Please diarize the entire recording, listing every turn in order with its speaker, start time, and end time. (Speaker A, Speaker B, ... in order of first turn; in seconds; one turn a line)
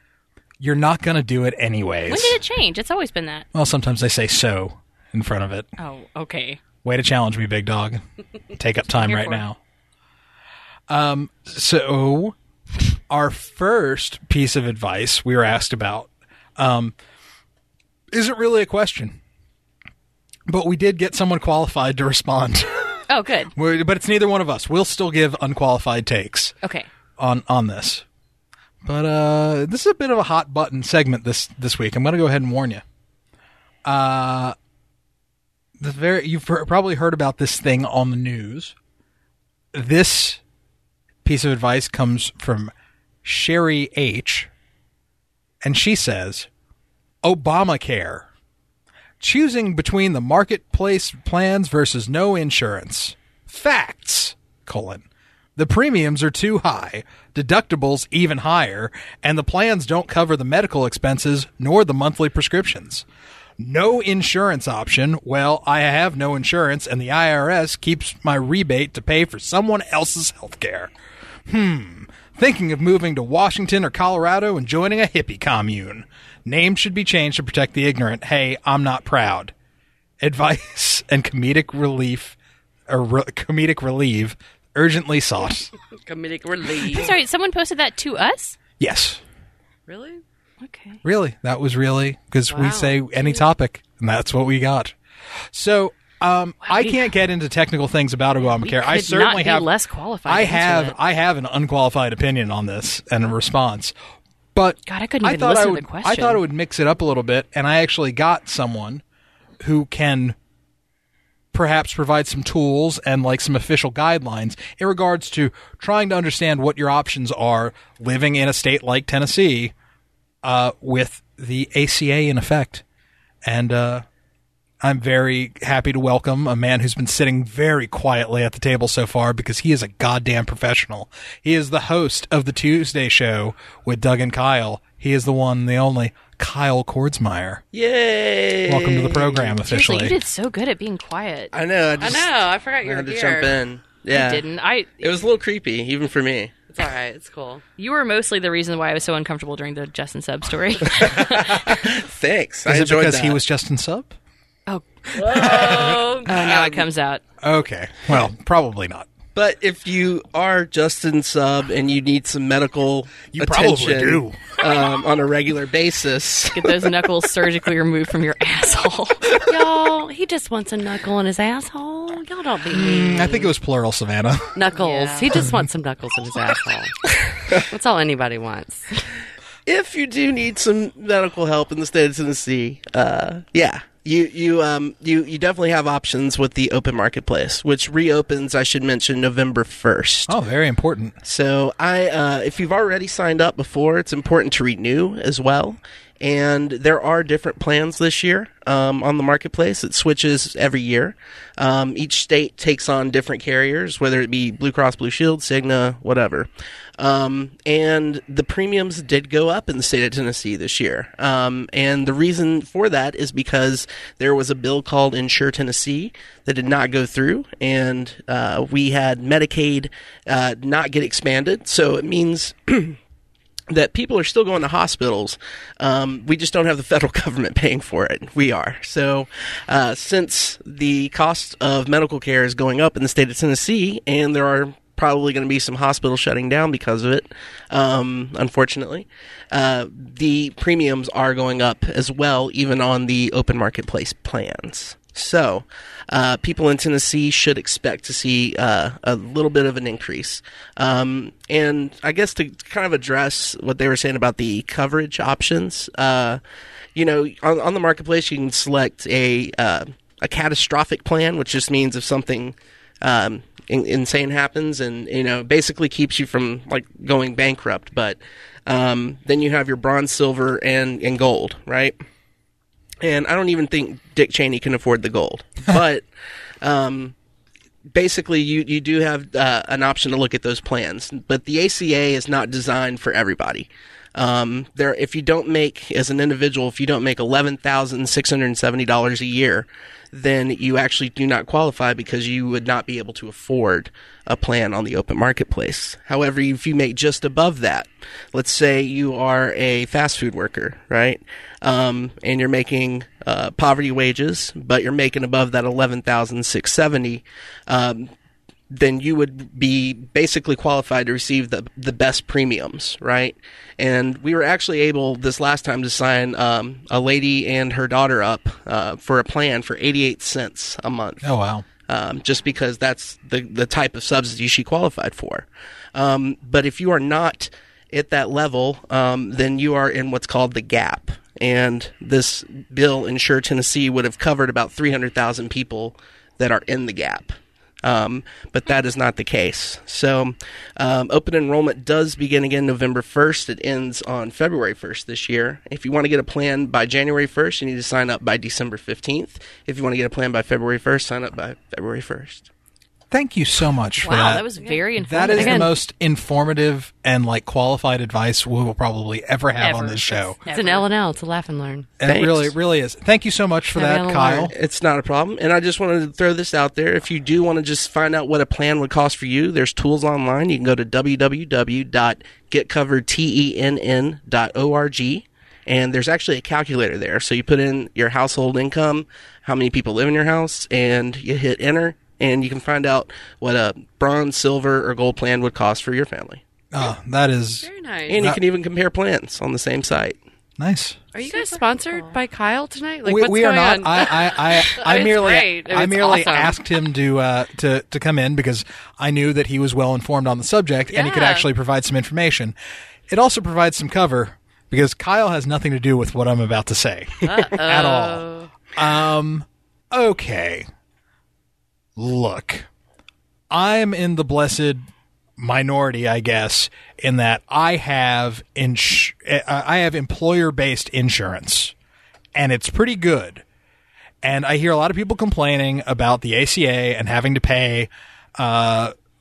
Speaker A: 0.6-2.4
Speaker B: 2.1-3.5
Speaker A: 3.5-5.7
Speaker B: 5.8-6.6
Speaker A: 6.8-8.0
Speaker A: 8.5-9.6
Speaker B: 9.0-9.4
Speaker A: 10.9-12.4
Speaker A: 13.1-16.9
Speaker A: 18.1-19.2
Speaker A: 20.5-23.0
Speaker B: 23.1-23.5
Speaker A: 23.6-26.6
Speaker B: 26.6-26.9
Speaker A: 27.2-28.0
Speaker A: 28.8-32.8
Speaker A: 33.9-34.5
Speaker A: 35.8-38.8
Speaker A: 39.7-40.4
Speaker A: 41.2-42.7
Speaker A: 43.2-44.5
Speaker A: 45.6-46.5
Speaker A: 47.2-48.3
Speaker A: 49.2-55.0
Speaker A: 55.6-63.0
Speaker A: 63.6-70.9
Speaker A: 71.5-79.5
Speaker A: 80.2-82.4
Speaker A: 82.9-85.7
Speaker C: 86.0-87.1
Speaker B: 86.9-88.6
Speaker A: 88.8-89.2
Speaker C: 89.9-90.2
Speaker B: 90.6-91.0
Speaker A: 91.0-94.9
Speaker C: 92.5-93.4
Speaker A: 95.5-99.7
Speaker B: 96.6-97.0
Speaker B: 98.5-101.0
Speaker A: 100.3-103.9
Speaker A: 104.5-109.0
Speaker B: 104.9-106.4
Speaker A: 109.6-110.4
Speaker A: 111.5-119.7
Speaker A: 120.4-122.8
Speaker A: 123.5-124.0
Speaker A: 124.8-137.6
Speaker D: 137.7-139.6
Speaker A: 138.7-140.2
Speaker B: 139.7-141.6
Speaker D: 141.5-142.3
Speaker C: 142.0-143.6
Speaker D: 142.8-144.4
Speaker B: 144.1-145.0
Speaker D: 145.0-146.6
Speaker C: 146.7-147.6
Speaker B: 147.8-151.9
Speaker D: 151.0-153.4
Speaker A: 152.7-154.1
Speaker B: 154.7-157.2
Speaker C: 155.3-156.3
Speaker D: 155.3-156.4
Speaker A: 157.4-159.1
Speaker D: 159.3-166.8
Speaker A: 163.3-164.6
Speaker B: 166.5-169.3
Speaker C: 169.4-173.5
Speaker A: 172.7-174.6
Speaker C: 174.6-179.0
Speaker B: 174.7-175.4
Speaker D: 179.7-190.3
Speaker A: 190.3-191.2
Speaker D: 191.2-223.0
Speaker D: 223.7-256.4
Speaker D: 256.9-272.0
Speaker D: 273.0-276.1
Speaker D: 276.6-277.1
Speaker D: 277.9-308.1
Speaker D: 308.7-321.3
Speaker A: 321.2-321.7
Speaker D: 321.8-352.5
Speaker A: 353.1-354.5
Speaker B: 354.0-355.7
Speaker C: 354.6-355.7
Speaker A: 355.0-360.4
Speaker B: 359.6-360.9
Speaker C: 360.5-361.9
Speaker A: 362.0-364.5
Speaker D: 362.0-362.5
Speaker C: 363.7-364.5
Speaker D: 364.5-386.4
Speaker A: 386.7-387.7
Speaker C: 387.6-388.2
Speaker D: 388.1-390.2
Speaker A: 390.6-391.0
Speaker C: 391.1-396.6
Speaker B: 391.3-392.1
Speaker A: 393.1-402.6
Speaker C: 400.9-401.5
Speaker A: 403.1-410.7
Speaker C: 407.2-408.5
Speaker A: 412.0-412.7
Speaker A: 413.5-414.9
Speaker A: 415.4-421.7
Speaker A: 422.4-423.4
Speaker A: 424.2-428.9